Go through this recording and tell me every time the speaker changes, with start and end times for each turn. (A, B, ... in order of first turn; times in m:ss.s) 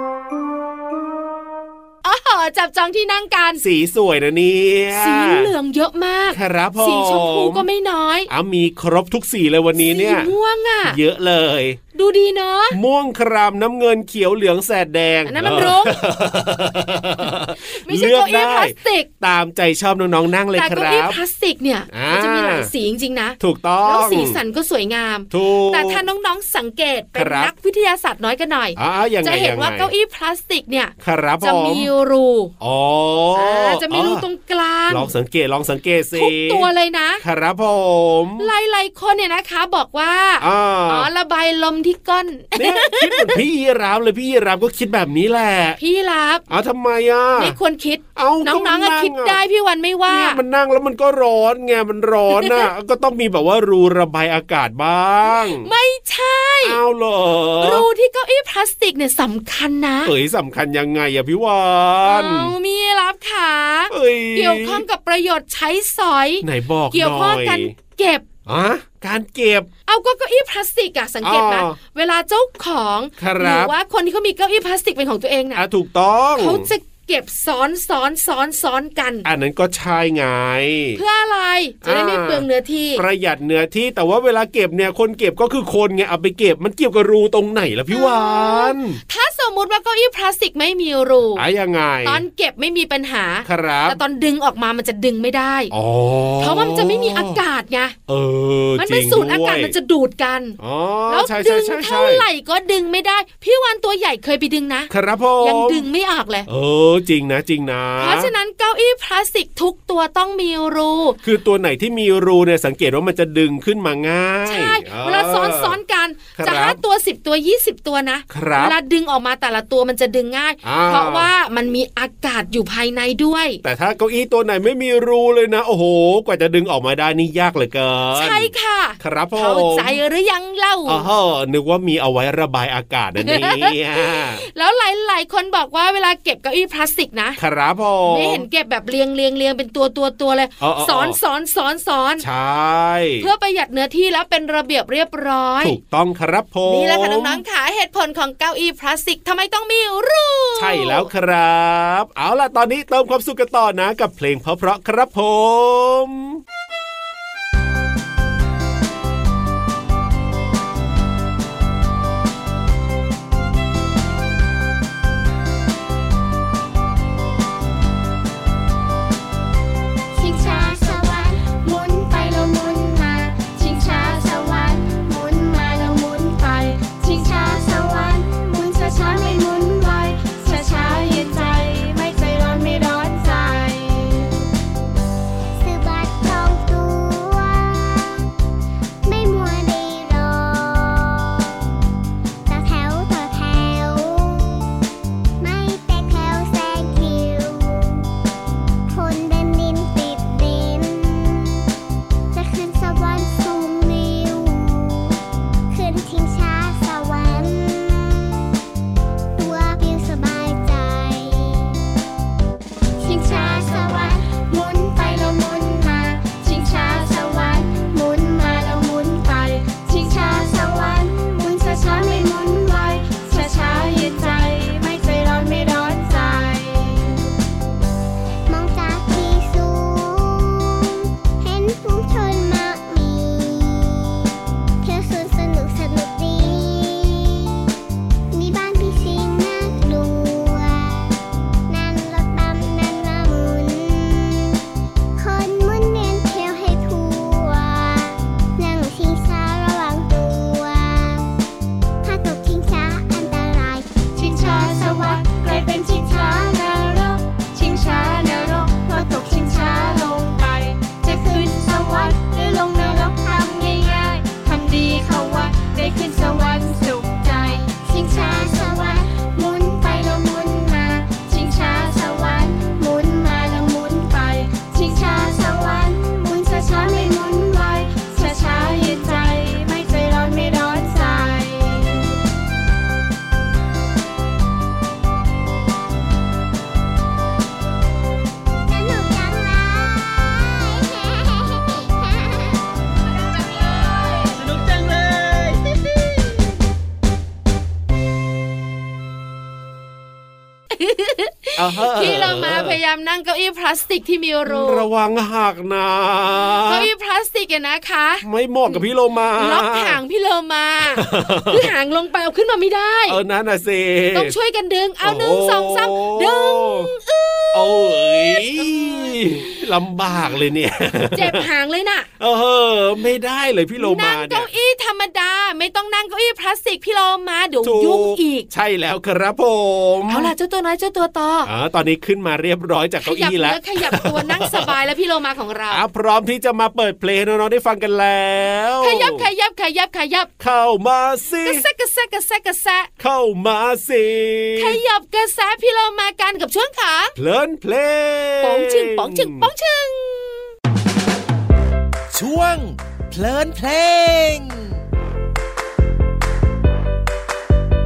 0:02.0-0:03.6 A
0:03.6-0:05.5 B
0:04.9-0:08.3 A
0:06.3-0:07.7 B
0:08.3-0:10.3 B
0:09.8-0:11.0 A
0:10.9-0:11.8 B
0:11.9-0:12.8 A
0:12.7-0:21.2 B
0:15.3-0:16.1 A
0:17.6-0:19.1 A
0:20.5-0:32.5 A
0:21.9-0:22.7 B
0:23.4-0:24.4 B
0:25.3-0:26.0 B
0:27.2-0:27.5 B
0:28.8-0:29.9 B
0:31.0-0:31.9 B
0:32.6-0:34.2 B
0:33.4-0:35.1 A
0:34.9-0:36.7 B
0:36.2-0:37.2 A
0:37.2-0:38.5 B
0:38.4-0:43.4 A
0:40.4-0:41.1 B
0:42.6-0:45.8 B
0:45.8-0:46.4 A
0:46.5-0:47.6 B
0:47.4-0:50.4 A
0:48.2-0:49.4 B
0:50.1-0:55.7 B
0:52.4-0:52.7 A
0:55.3-0:56.8 A
0:56.6-0:57.9 B
0:57.6-1:00.1 A
1:00.0-1:02.5 B
1:02.0-1:08.3 A
1:03.9-1:04.8 B
1:06.4-1:07.7 B
1:08.5-1:09.7 B
1:09.9-1:15.6 A
1:11.2-1:11.8 B
1:13.2-1:13.7 B
1:15.6-1:16.7 B
1:16.4-1:19.3 A
1:19.2-1:21.0 B
1:21.0-1:23.0 A
1:21.8-1:29.0 B
1:27.9-1:31.4 A
1:31.4-1:32.2 B
1:32.0-1:35.7 A
1:33.5-1:34.0 B
1:35.7-1:37.4 B
1:36.4-1:38.0 A
1:38.1-1:39.7 B
1:38.8-1:40.6 A
1:40.6-1:42.2 B
1:41.1-1:46.5 A
1:44.9-1:45.8 B
1:46.5-1:48.3 B
1:48.0-1:51.2 A
1:51.2-1:55.8 B
1:54.5-2:03.6 A
1:56.4-1:56.8 B
1:58.3-1:58.8 B
2:00.6-2:01.3 B
2:03.6-2:10.0 B
2:08.1-2:11.1 A
2:10.9-2:14.4 B
2:13.2-2:17.4 A
2:17.4-2:18.4 B
2:18.0-2:22.2 A
2:20.6-2:21.2 B
2:22.2-2:23.3 B
2:23.2-2:25.8 A
2:25.6-2:27.4 B
2:26.7-2:31.1 A
2:30.6-2:36.4 B
2:50.1-3:04.4 C
3:05.6-3:08.3 D
3:09.0-3:11.5 D
3:12.5-3:14.7 D
3:15.4-3:18.1 D
3:18.9-3:21.6 D
3:22.3-3:25.2 D
3:25.7-3:28.4 D
3:29.4-3:31.8 D
3:33.0-3:47.3 C
3:48.5-3:54.2 D
3:54.8-3:57.5 D
3:58.3-4:01.2 D
4:01.7-4:04.6 D
4:05.2-4:11.3 D
4:12.0-4:13.9 D
4:14.2-4:42.2 C
4:48.7-4:52.6 D
5:00.7-5:04.9 A
5:01.6-5:02.8 B
5:04.5-5:06.9 B
5:06.6-5:08.8 A
5:08.2-5:10.0 B
5:09.4-5:13.2 A
5:11.0-5:11.7 B
5:13.1-5:14.3 B
5:14.1-5:19.5 A
5:15.0-5:16.9 B
5:17.5-5:21.5 B
5:21.2-5:22.1 A
5:22.2-5:24.5 B
5:23.8-5:28.5 A
5:27.6-5:30.3 B
5:30.1-5:31.5 A
5:31.5-5:34.7 B
5:33.0-5:35.8 A
5:35.7-5:39.2 B
5:38.8-5:40.3 A
5:40.4-5:41.6 B
5:41.4-5:42.9 A
5:43.0-5:44.8 B
5:44.6-5:47.1 A
5:47.2-5:49.5 B
5:48.4-5:50.5 A
5:52.1-5:54.8 E